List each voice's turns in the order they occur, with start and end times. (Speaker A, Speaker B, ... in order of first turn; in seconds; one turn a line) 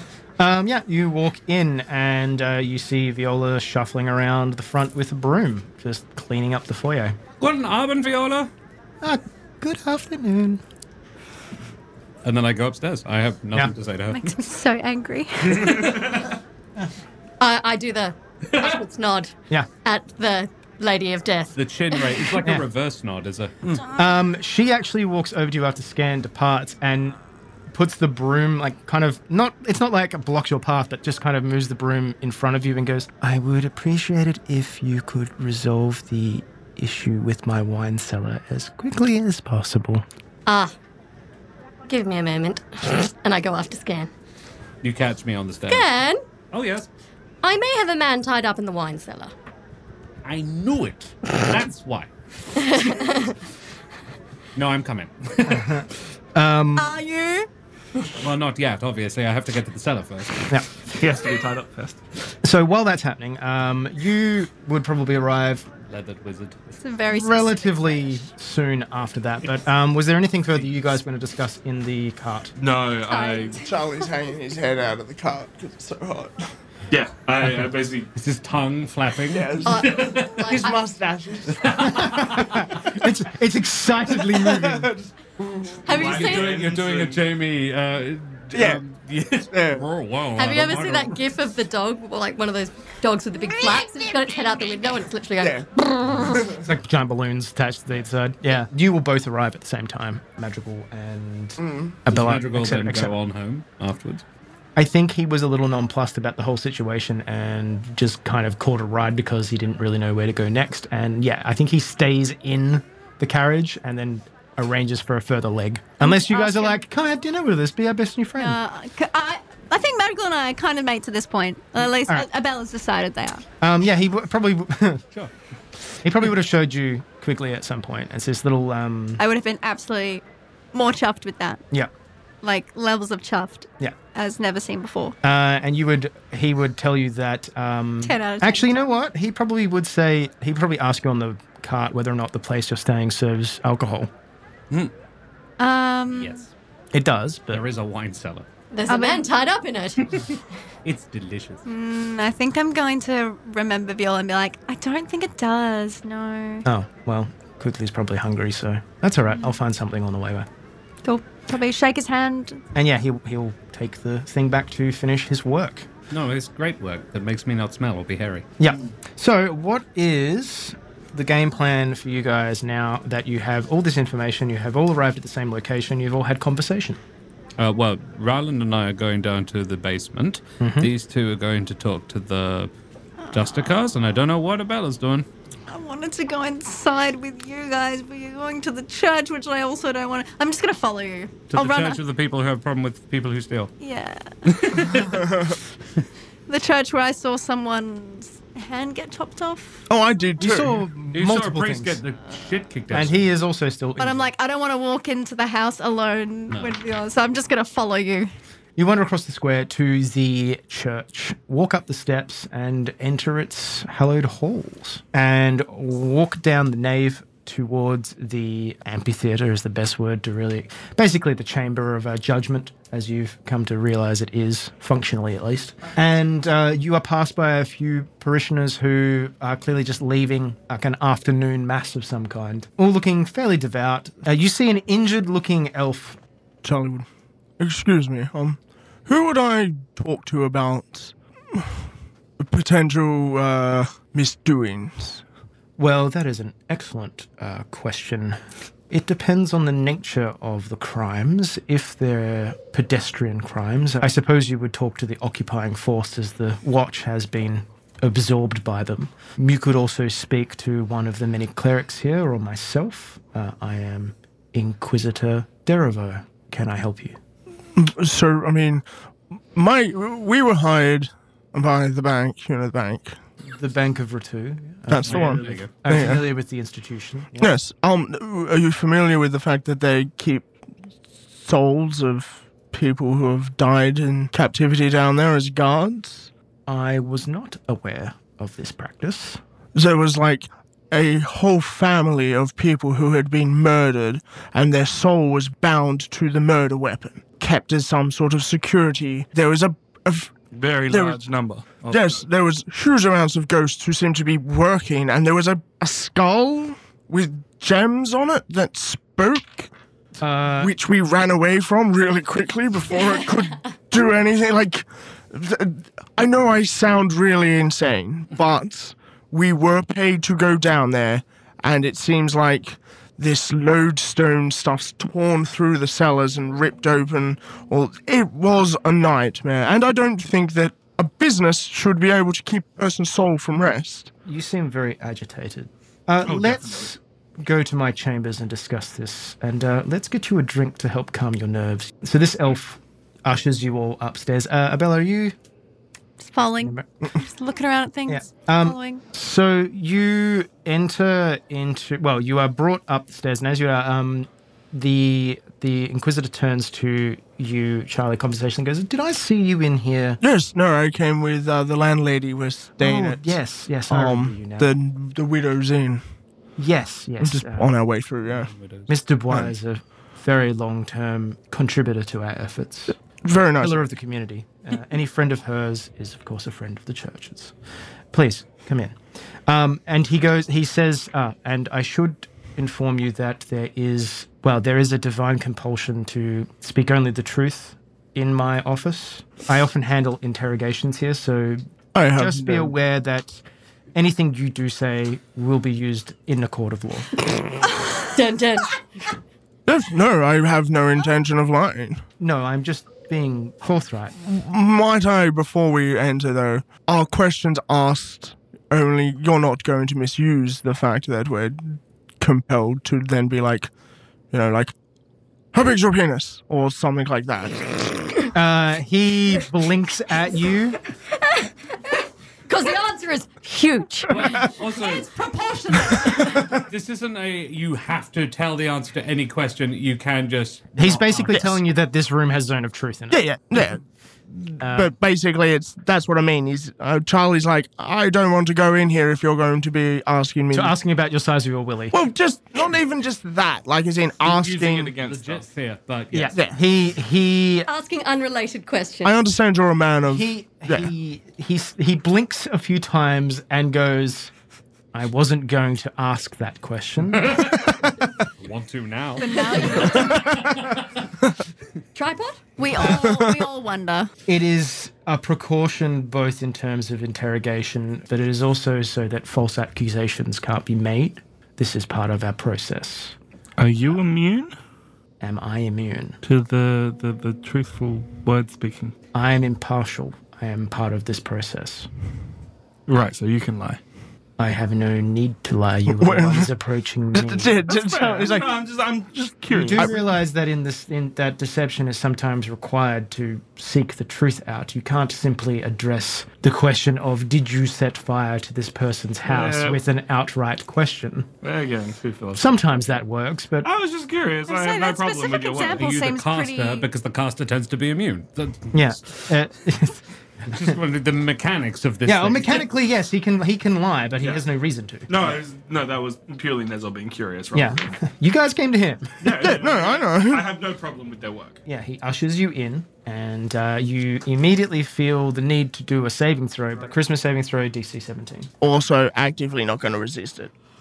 Speaker A: 0.4-7.2
Speaker B: 7.4-8.5
Speaker A: 9.0-10.6
Speaker B: 12.2-14.4
Speaker C: 14.1-16.1
Speaker B: 15.6-16.3
Speaker D: 17.4-22.4
Speaker B: 21.6-23.9
Speaker A: 23.9-27.2
Speaker A: 27.7-40.0
Speaker D: 40.5-40.7
Speaker D: 41.9-44.1
Speaker B: 44.8-45.9
Speaker D: 45.7-46.2
Speaker B: 46.5-46.9
Speaker D: 47.4-49.3
Speaker B: 50.2-52.1
Speaker D: 52.6-53.4
Speaker B: 54.5-55.8
Speaker A: 55.5-56.9
Speaker C: 56.8-57.5
Speaker B: 58.1-60.5
Speaker E: 60.9-62.0
Speaker A: 62.4-65.7
Speaker B: 65.9-66.8
Speaker C: 66.8-68.2
Speaker A: 67.1-72.5
Speaker E: 72.6-73.7
Speaker C: 73.1-73.7
Speaker F: 73.6-76.5
Speaker E: 76.9-78.1
Speaker B: 78.2-80.7
Speaker F: 79.3-82.1
Speaker D: 79.6-80.9
Speaker B: 81.6-82.8
Speaker A: 81.8-84.9
Speaker F: 84.2-85.8
Speaker D: 85.9-86.6
Speaker E: 85.9-87.2
Speaker B: 85.9-91.2
Speaker F: 88.5-88.8
Speaker F: 89.4-89.8
Speaker D: 90.4-96.5
Speaker F: 95.4-95.7
Speaker F: 96.2-96.6
Speaker A: 96.5-103.1
Speaker F: 101.6-102.0
Speaker B: 102.1-104.2
Speaker A: 104.8-118.6
Speaker C: 116.0-116.8
Speaker C: 118.4-123.4
Speaker A: 123.6-125.0
Speaker A: 126.0-129.2
Speaker C: 129.2-131.6
Speaker C: 132.4-135.2
Speaker A: 135.2-144.1
Speaker C: 138.0-138.9
Speaker C: 145.6-146.4
Speaker B: 146.1-146.5
Speaker A: 146.9-147.6
Speaker B: 147.5-148.5
Speaker D: 148.7-150.2
Speaker C: 148.9-149.3
Speaker B: 150.1-151.6
Speaker C: 151.7-156.7
Speaker A: 156.7-160.5
Speaker C: 159.3-159.6
Speaker C: 161.0-162.6
Speaker A: 162.8-165.9
Speaker B: 166.1-168.5
Speaker A: 168.6-177.0
Speaker B: 177.6-182.7
Speaker A: 180.6-180.9
Speaker C: 183.2-183.7
Speaker B: 183.3-185.3
Speaker C: 185.7-192.0
Speaker B: 191.5-193.7
Speaker C: 193.8-195.0
Speaker B: 194.5-195.5
Speaker C: 196.5-199.8
Speaker F: 199.9-200.8
Speaker A: 200.4-202.0
Speaker B: 201.1-203.3
Speaker A: 202.9-204.3
Speaker C: 204.0-208.3
Speaker B: 206.5-206.8
Speaker A: 208.8-236.2
Speaker F: 236.6-237.1
Speaker F: 237.6-241.8
Speaker F: 242.4-245.2
Speaker A: 245.8-248.4
Speaker A: 248.9-267.2
Speaker F: 267.8-268.9
Speaker F: 269.5-273.2
Speaker A: 273.5-277.6
Speaker F: 274.9-276.3
Speaker B: 275.0-275.7
Speaker F: 277.4-280.5
Speaker F: 281.4-286.3
Speaker A: 286.7-289.4
Speaker F: 289.8-300.3
Speaker E: 300.5-302.2
Speaker F: 300.9-301.2
Speaker F: 301.9-309.7
Speaker A: 310.2-310.7
Speaker F: 310.6-334.1
Speaker A: 334.2-345.4
Speaker E: 336.2-336.9
Speaker C: 346.2-349.0
Speaker A: 348.1-360.2
Speaker F: 360.2-366.0
Speaker A: 362.8-364.7
Speaker A: 366.6-367.7
Speaker F: 367.2-368.5
Speaker B: 368.4-368.9
Speaker A: 368.9-373.0
Speaker F: 373.2-373.8
Speaker A: 373.6-377.5
Speaker A: 378.1-391.6
Speaker F: 391.9-392.8
Speaker A: 392.1-393.4
Speaker A: 393.9-397.1
Speaker D: 398.0-399.1
Speaker F: 399.7-402.0
Speaker A: 402.2-404.1
Speaker F: 404.2-413.7
Speaker F: 414.3-414.7
Speaker F: 415.5-418.2
Speaker A: 418.3-420.8
Speaker D: 422.5-424.5
Speaker B: 424.1-425.1
Speaker C: 424.6-426.6
Speaker B: 426.2-431.6
Speaker A: 430.8-433.2
Speaker F: 433.1-433.8
Speaker F: 434.3-440.8
Speaker A: 434.6-434.9
Speaker A: 440.5-442.0
Speaker F: 441.9-445.0
Speaker E: 444.2-445.4
Speaker B: 445.0-446.4
Speaker A: 446.1-447.7
Speaker D: 447.7-449.2
Speaker F: 449.0-450.9
Speaker A: 450.1-454.3
Speaker A: 454.9-457.5
Speaker B: 457.2-460.9
Speaker C: 459.2-460.3
Speaker D: 461.9-462.5
Speaker C: 462.6-464.1
Speaker F: 462.8-463.4
Speaker A: 464.3-473.2
Speaker E: 473.6-474.5
Speaker A: 475.2-476.2
Speaker E: 476.2-478.9
Speaker A: 479.1-481.9
Speaker E: 482.9-483.8
Speaker A: 484.4-487.6
Speaker F: 485.9-486.5
Speaker F: 487.1-488.6
Speaker E: 487.7-489.9
Speaker A: 489.5-501.3
Speaker E: 499.2-499.8
Speaker E: 501.4-502.6
Speaker A: 502.4-503.7
Speaker E: 503.6-506.0
Speaker C: 504.5-506.9
Speaker B: 505.7-509.3
Speaker A: 508.7-510.0
Speaker B: 510.5-512.7
Speaker A: 512.0-515.4
Speaker E: 514.2-514.4
Speaker E: 515.1-518.0
Speaker A: 517.5-519.2
Speaker E: 519.2-521.6
Speaker F: 519.3-520.5
Speaker A: 521.7-528.5
Speaker F: 528.6-530.5